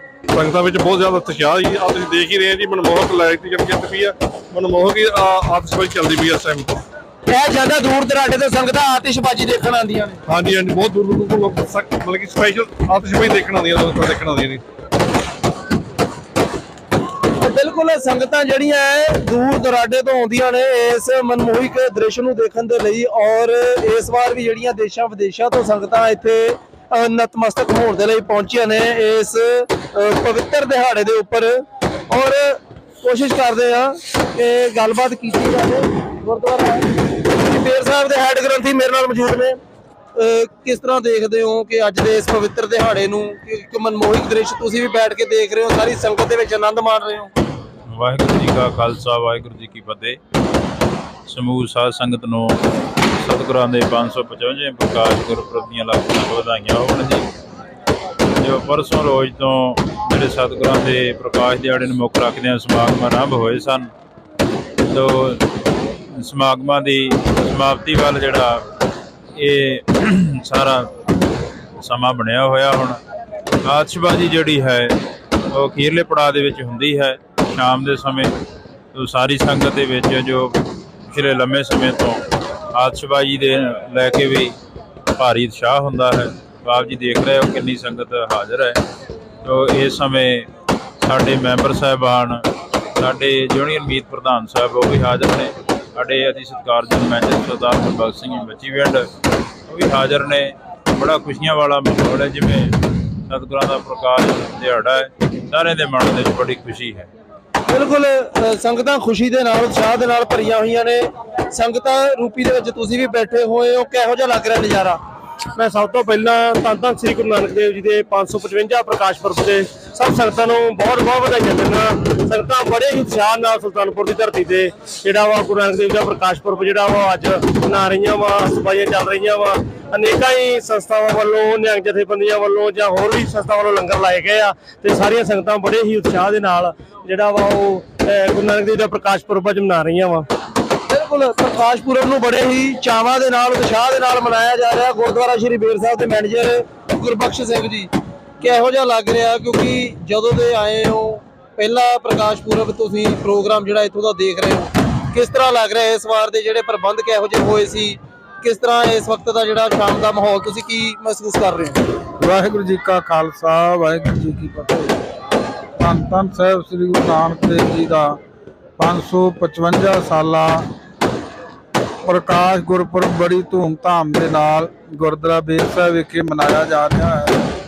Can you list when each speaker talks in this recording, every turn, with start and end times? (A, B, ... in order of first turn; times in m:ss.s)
0:00.3-0:06.8 A
0:07.3-0:10.2 B
0:10.3-0:14.6 A
0:17.4-0:39.6 B
0:40.2-0:47.3 B
0:47.9-0:50.2 C
0:51.3-0:57.3 C
0:58.4-1:03.9 C
1:04.9-1:05.4 C
1:06.2-1:08.6 C
1:09.4-1:10.9 C
1:11.8-1:13.0 C
1:13.6-1:15.0 C
1:15.5-1:18.3 C
1:18.9-1:20.5 C
1:21.1-1:24.6 C
1:25.2-1:28.8 C
1:29.4-1:30.5 C
1:31.0-1:32.4 C
1:33.0-1:39.1 C
1:39.7-1:47.1 C
1:47.7-1:55.0 B
1:55.6-2:20.3 D
2:20.9-2:41.8 B
2:42.2-2:45.0 E
2:45.8-2:48.2 E
2:48.8-2:50.6 E
2:52.0-2:57.5 E